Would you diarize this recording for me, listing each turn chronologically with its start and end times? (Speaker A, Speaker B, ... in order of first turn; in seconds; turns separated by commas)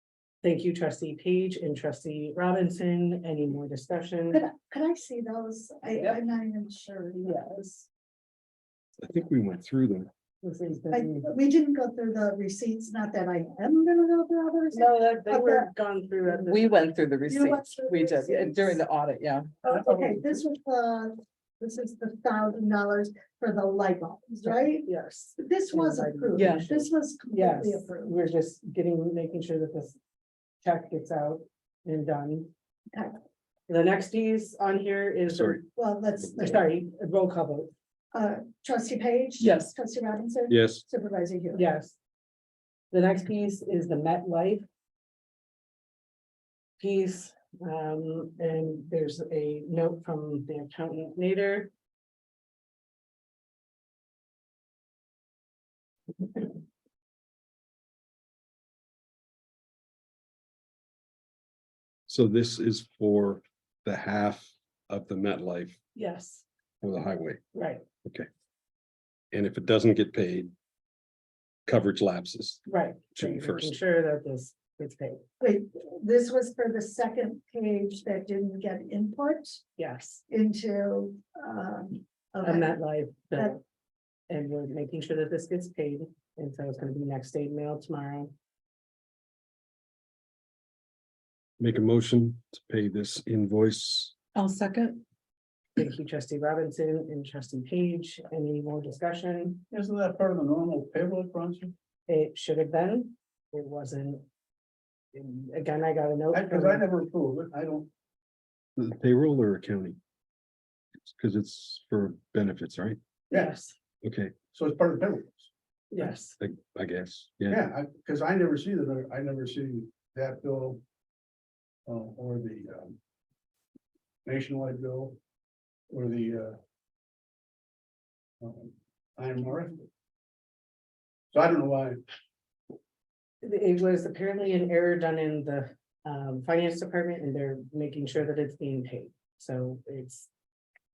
Speaker A: 0.4-4.4, Speaker B: 4.3-7.3, Speaker A: 7.2-7.9, Speaker C: 9.0-10.1, Speaker A: 10.4-11.3, Speaker B: 10.9-15.7, Speaker A: 14.7-16.7, Speaker D: 16.5-19.5, Speaker B: 17.3-18.8, Speaker B: 19.6-28.1, Speaker A: 19.7-20.2, Speaker A: 24.4-30.0, Speaker D: 26.3-26.7, Speaker A: 30.6-32.5, Speaker A: 33.7-35.7, Speaker C: 35.3-35.6, Speaker B: 35.8-36.6, Speaker A: 36.4-37.7, Speaker B: 38.1-41.6, Speaker D: 39.4-39.7, Speaker C: 40.5-40.8, Speaker A: 41.5-41.9, Speaker A: 42.9-44.6, Speaker A: 46.8-51.7, Speaker C: 62.1-65.8, Speaker A: 65.9-66.4, Speaker C: 66.8-67.4, Speaker A: 67.5-67.8, Speaker C: 69.3-70.5, Speaker C: 71.7-73.8, Speaker A: 72.7-75.2, Speaker B: 75.4-79.6, Speaker A: 79.8-80.2, Speaker B: 80.3-82.8, Speaker A: 82.4-83.6, Speaker A: 84.3-88.3, Speaker C: 91.6-94.1, Speaker D: 94.3-95.0, Speaker A: 95.8-99.6, Speaker E: 99.7-101.7, Speaker A: 102.1-104.2, Speaker A: 105.1-106.8, Speaker E: 106.3-107.9, Speaker C: 108.8-110.0, Speaker C: 111.0-113.0, Speaker A: 113.3-113.7, Speaker C: 114.0-114.3, Speaker E: 114.5-115.5, Speaker A: 115.9-116.3, Speaker C: 116.4-117.6, Speaker E: 117.5-120.8, Speaker E: 121.9-123.0, Speaker E: 124.2-125.2, Speaker E: 125.9-126.6, Speaker E: 128.4-129.9, Speaker E: 131.3-132.0, Speaker A: 133.4-140.3